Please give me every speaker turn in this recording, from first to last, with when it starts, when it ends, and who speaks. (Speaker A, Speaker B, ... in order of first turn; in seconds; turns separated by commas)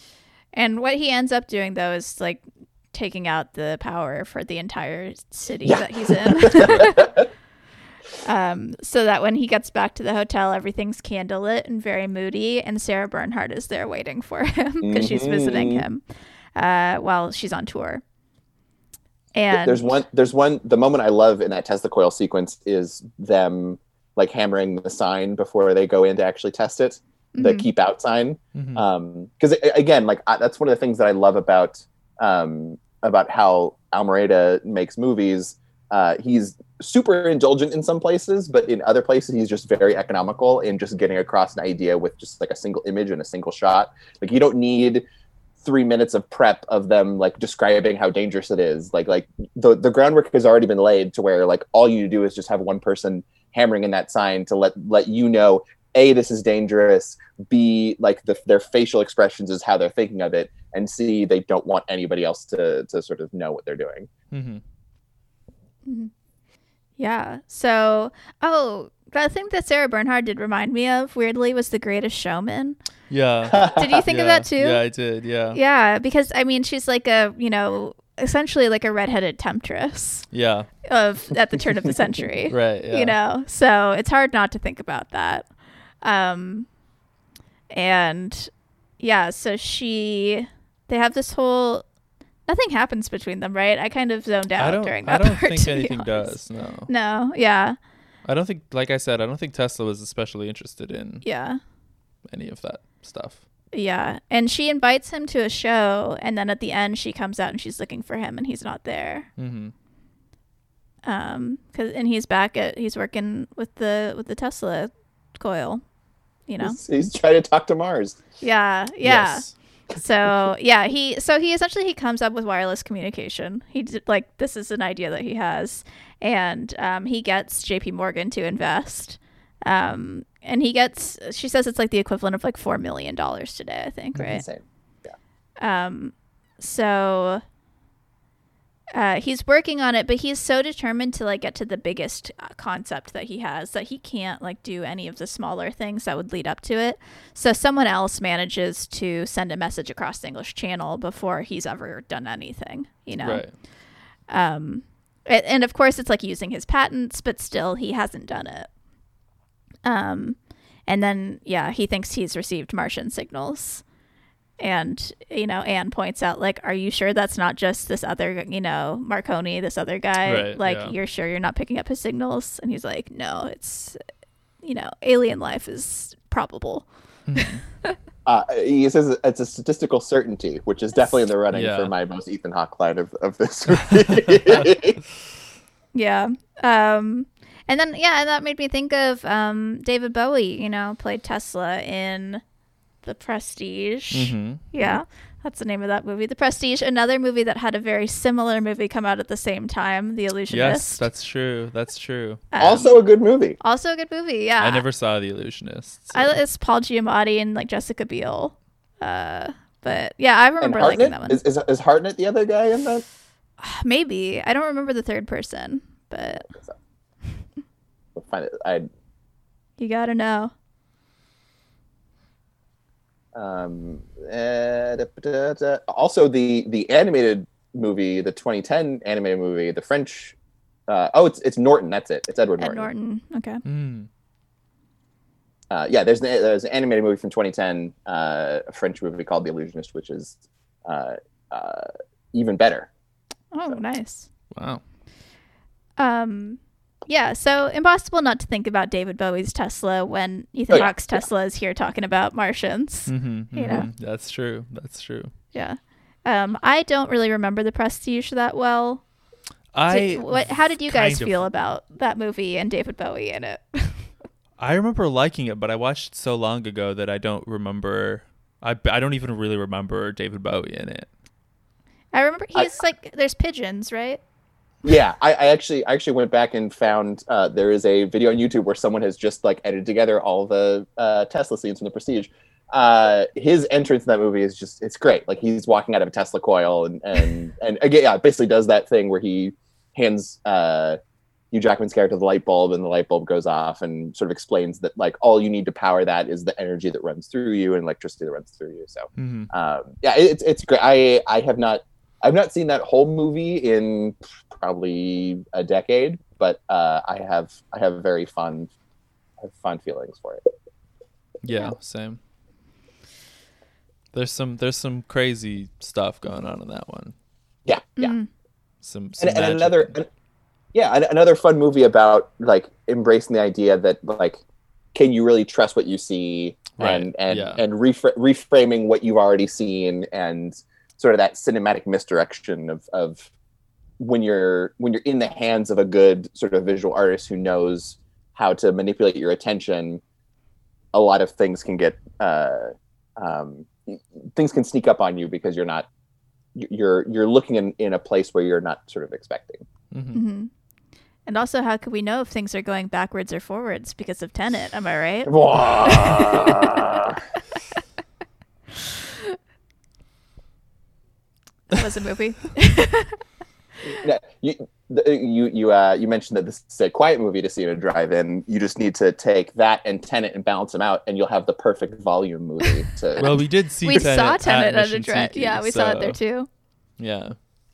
Speaker A: 0.5-7.0, Speaker B: 5.7-7.3, Speaker C: 6.6-7.0, Speaker A: 8.2-16.0, Speaker B: 14.8-15.9, Speaker A: 16.6-18.0, Speaker A: 19.3-19.9, Speaker B: 19.5-45.0, Speaker A: 27.4-27.7, Speaker C: 28.6-28.9, Speaker B: 45.6-64.1, Speaker C: 64.3-64.6, Speaker A: 65.8-66.1, Speaker A: 67.0-72.8, Speaker C: 73.1-75.6, Speaker B: 73.5-74.0, Speaker A: 73.8-74.8, Speaker A: 75.5-80.3, Speaker C: 80.3-80.7, Speaker A: 80.8-85.5, Speaker C: 82.5-83.2, Speaker A: 86.0-86.7, Speaker A: 87.7-91.8, Speaker A: 92.5-97.8, Speaker C: 94.6-96.9, Speaker C: 98.2-101.2, Speaker A: 101.2-101.6, Speaker C: 102.3-103.4, Speaker A: 103.7-109.3, Speaker C: 109.4-109.7, Speaker A: 111.0-115.8, Speaker A: 116.5-116.8, Speaker B: 116.6-118.2, Speaker A: 118.4-134.4, Speaker C: 119.0-119.5, Speaker C: 134.2-134.4, Speaker B: 134.2-135.2, Speaker A: 135.6-137.4, Speaker A: 138.9-153.7, Speaker C: 153.2-153.5, Speaker A: 154.3-158.7, Speaker A: 159.8-163.8, Speaker A: 164.6-174.0, Speaker C: 170.2-170.9, Speaker A: 174.6-178.0, Speaker C: 177.3-177.6, Speaker B: 178.3-185.0, Speaker C: 181.5-181.9, Speaker A: 185.9-192.4, Speaker A: 193.0-201.1, Speaker C: 194.1-194.7, Speaker C: 200.5-202.4, Speaker A: 202.5-203.0, Speaker B: 202.6-203.6, Speaker A: 203.6-204.8, Speaker C: 204.6-206.3, Speaker A: 206.1-211.4, Speaker B: 210.6-213.0, Speaker A: 213.6-216.5, Speaker B: 216.5-216.8, Speaker B: 218.2-218.9, Speaker A: 219.8-220.5, Speaker B: 223.3-230.3, Speaker B: 230.9-232.9, Speaker A: 232.6-233.6, Speaker C: 233.7-234.1, Speaker B: 235.7-242.9, Speaker A: 243.5-244.3, Speaker C: 244.5-244.8, Speaker A: 246.0-253.9, Speaker B: 250.7-251.3, Speaker C: 253.1-255.3, Speaker A: 255.5-259.0, Speaker C: 259.7-261.4, Speaker A: 259.9-264.1, Speaker C: 264.6-271.1, Speaker A: 272.1-274.2, Speaker B: 274.8-291.0, Speaker B: 291.5-308.7, Speaker C: 299.2-299.5, Speaker B: 309.4-310.4, Speaker C: 311.4-312.2, Speaker C: 314.1-317.1, Speaker B: 317.7-318.2, Speaker A: 318.0-318.3, Speaker C: 318.8-320.0, Speaker B: 319.2-320.1, Speaker B: 320.7-324.4, Speaker B: 324.9-333.3, Speaker C: 326.8-327.6, Speaker B: 334.0-340.0, Speaker B: 340.9-345.9, Speaker B: 346.6-349.7, Speaker C: 349.9-350.2, Speaker A: 350.1-350.5, Speaker A: 351.3-356.7, Speaker B: 355.3-357.2, Speaker A: 361.7-363.2, Speaker B: 363.8-373.3, Speaker A: 373.2-376.5, Speaker C: 373.2-376.2, Speaker C: 377.0-377.5